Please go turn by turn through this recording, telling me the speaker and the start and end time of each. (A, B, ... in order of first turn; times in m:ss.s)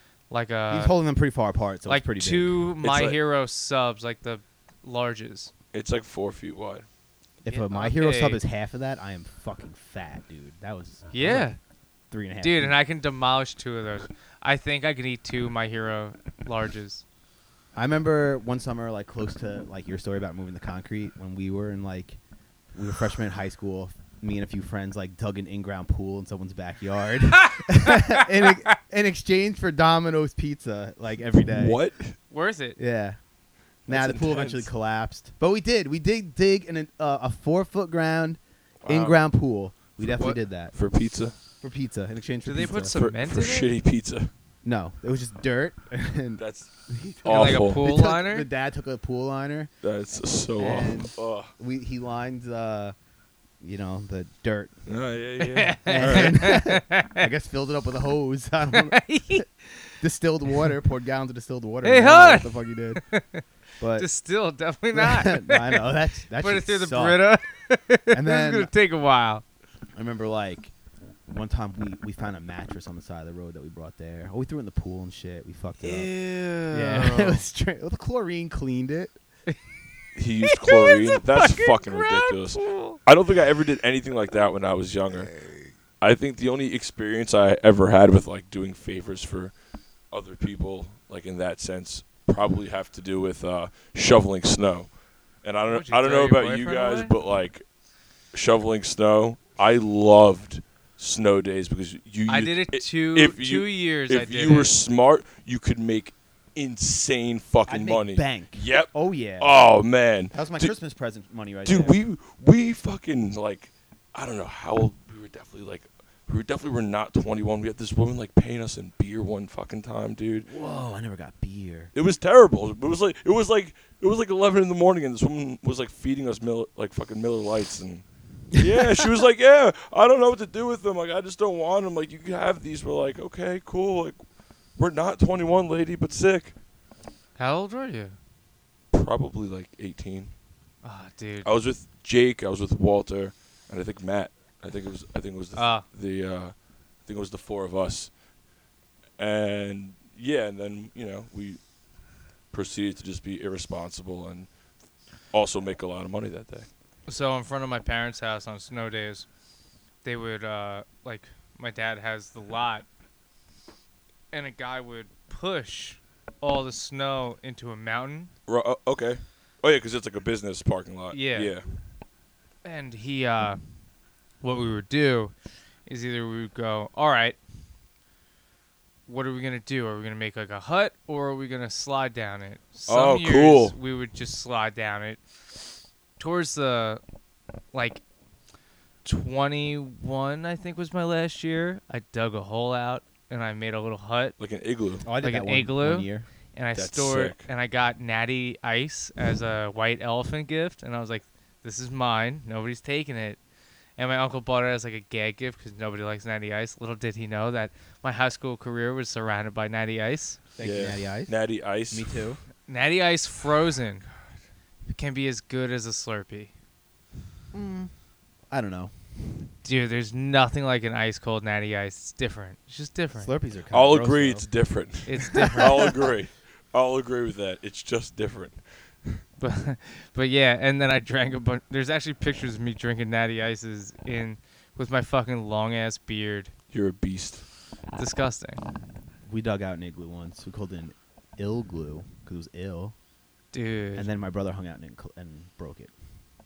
0:00.3-0:00.9 A
0:00.7-0:02.6 B
0:01.9-0:05.5 A
0:02.8-0:03.2 C
0:05.7-0:06.8 C
0:07.4-0:11.5 B
0:07.5-0:08.4 A
0:11.1-0:11.6 A
0:12.1-0:12.8 B
0:12.4-0:17.0 A
0:17.7-0:22.2 B
0:22.7-0:31.8 B
0:27.4-0:28.4 A
0:31.5-0:32.2 C
0:32.3-0:32.8 A
0:32.8-0:33.2 B
0:33.9-0:40.7 B
0:33.9-0:34.7 C
0:38.8-0:39.2 C
0:40.1-0:40.4 A
0:40.7-0:41.3 C
0:41.6-0:42.9 B
0:42.4-0:43.7 A
0:42.9-0:44.3 C
0:44.6-0:49.7 B
0:46.4-0:46.7 C
0:47.2-0:47.8 C
0:47.2-0:48.5 A
0:49.8-0:51.5 C
0:50.6-0:52.9 B
0:53.6-0:54.8 B
0:54.9-0:56.4 C
0:55.4-0:57.2 A
0:55.9-0:59.4 B
0:58.7-0:59.9 A
1:00.0-1:03.0 B
1:01.8-1:03.4 A
1:03.8-1:04.1 B
1:04.0-1:05.9 A
1:04.9-1:07.2 B
1:06.4-1:09.4 A
1:08.1-1:08.7 B
1:09.9-1:10.7 B
1:11.3-1:19.1 B
1:15.8-1:17.4 A
1:20.1-1:25.4 C
1:20.4-1:23.0 A
1:26.0-1:29.5 C
1:30.1-1:37.6 C
1:35.7-1:37.1 A
1:38.3-1:50.7 C
1:42.3-1:44.7 A
1:47.7-1:49.6 B
1:50.3-1:52.0 B
1:51.6-2:00.5 C
2:00.5-2:01.9 B
2:01.9-2:14.2 C
2:14.7-2:16.5 C
2:17.4-2:18.2 A
2:18.9-2:20.3 C
2:20.8-2:21.5 A
2:21.4-2:28.1 C
2:25.6-2:25.8 A
2:29.2-2:31.6 C
2:32.5-2:34.5 C
2:35.3-2:36.7 C
2:37.1-2:39.3 A
2:40.0-2:42.8 A
2:44.3-2:48.3 A
2:48.5-2:51.6 C
2:51.1-2:51.5 A
2:52.6-2:53.6 A
2:54.4-2:55.3 A
2:55.8-2:57.4 A
2:59.1-3:05.2 A
3:02.9-3:03.8 C
3:06.2-3:07.0 A
3:07.7-3:08.0 A
3:09.0-3:14.4 A
3:14.4-3:15.1 C
3:15.0-3:16.3 B
3:15.2-3:23.4 A
3:16.7-3:17.4 C
3:24.0-3:30.4 A
3:30.6-3:31.4 B
3:30.6-3:32.2 C
3:31.9-3:32.4 B
3:32.7-3:34.0 A
3:34.9-3:36.5 A
3:37.5-3:37.9 B
3:38.5-3:38.9 B
3:39.6-3:43.3 A
3:43.2-3:44.5 B
3:43.7-3:49.2 C
3:45.0-3:45.9 A
3:49.4-3:56.5 A
3:56.7-3:57.5 C
3:57.9-3:58.8 A
3:59.2-4:02.9 B
4:03.5-4:04.1 A
4:04.0-4:05.9 B